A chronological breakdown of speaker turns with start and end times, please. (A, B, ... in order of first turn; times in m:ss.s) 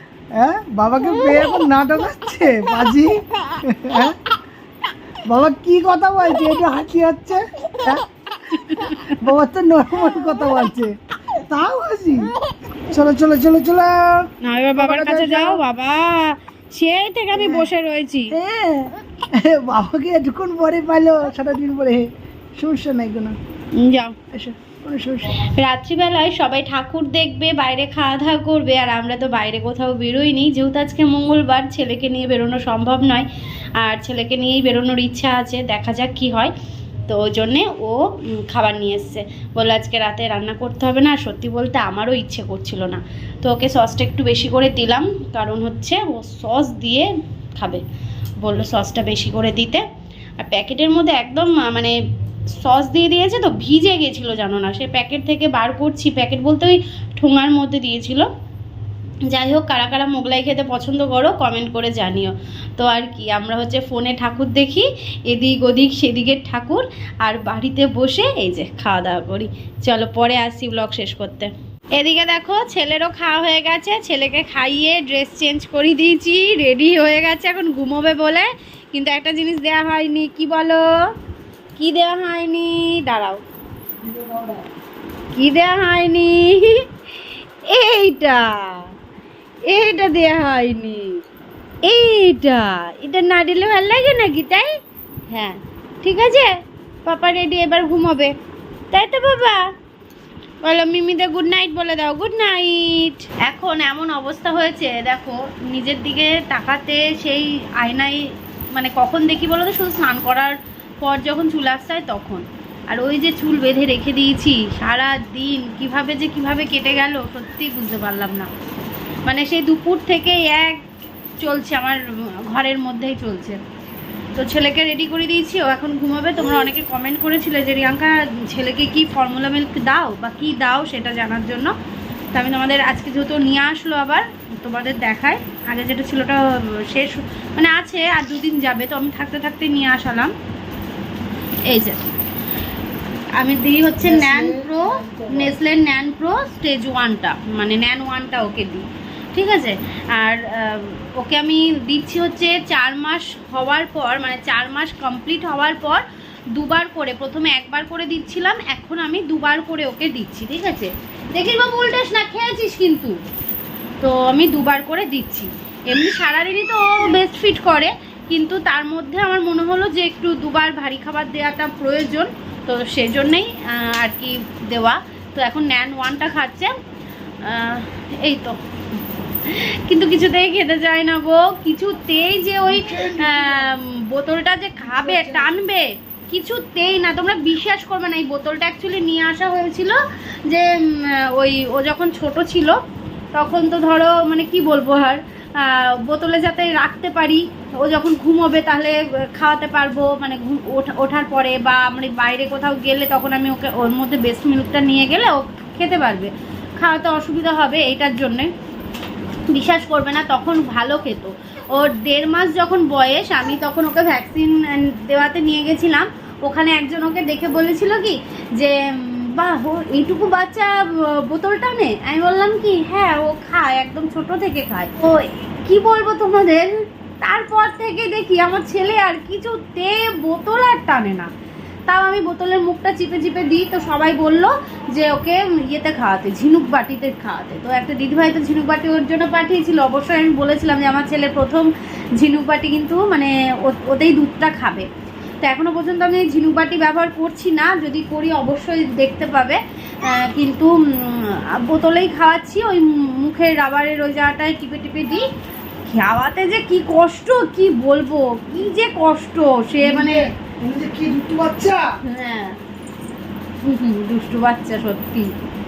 0:00.4-0:04.2 A
0:05.3-0:08.0 A
0:08.5-0:09.1 B
0:09.0-0:12.3 A
0:12.9-0:15.6 A
0:14.4-0:18.4 B
0:17.4-0:17.7 A
0:18.3-0:22.1 A
0:22.6-0:23.4 A
0:23.8-0:24.2 B
0:24.3-0:25.3 A
0:25.4-0:33.3 B
0:33.8-0:36.5 B
0:37.1-0:47.8 B
0:48.4-0:49.8 B
0:50.4-0:51.9 B
0:52.6-0:58.3 B
0:59.3-1:20.9 B
1:21.8-1:23.4 B
1:24.0-1:24.7 A
1:25.3-1:26.8 B
1:27.7-1:28.9 B
1:29.7-1:31.1 B
1:31.8-1:34.7 B
1:35.3-1:36.6 B
1:37.1-1:38.3 B
1:38.9-1:39.6 B
1:40.6-1:58.5 B
1:59.3-2:00.9 B
2:01.4-2:03.6 B
2:04.4-2:11.7 B
2:12.3-2:20.3 B
2:21.7-2:22.0 B
2:23.4-2:36.0 B
2:24.0-2:25.5 A
2:36.5-2:43.2 B
2:44.0-2:56.7 B
2:57.4-2:58.6 B
2:59.4-3:12.8 B
3:02.7-3:03.7 A
3:04.8-3:05.5 A
3:13.3-3:28.5 B
3:29.5-3:51.3 B
3:51.9-4:04.9 B
4:05.4-4:15.3 B
4:15.9-4:20.2 B
4:19.8-4:21.8 A
4:22.1-4:22.6 B
4:23.6-4:25.3 B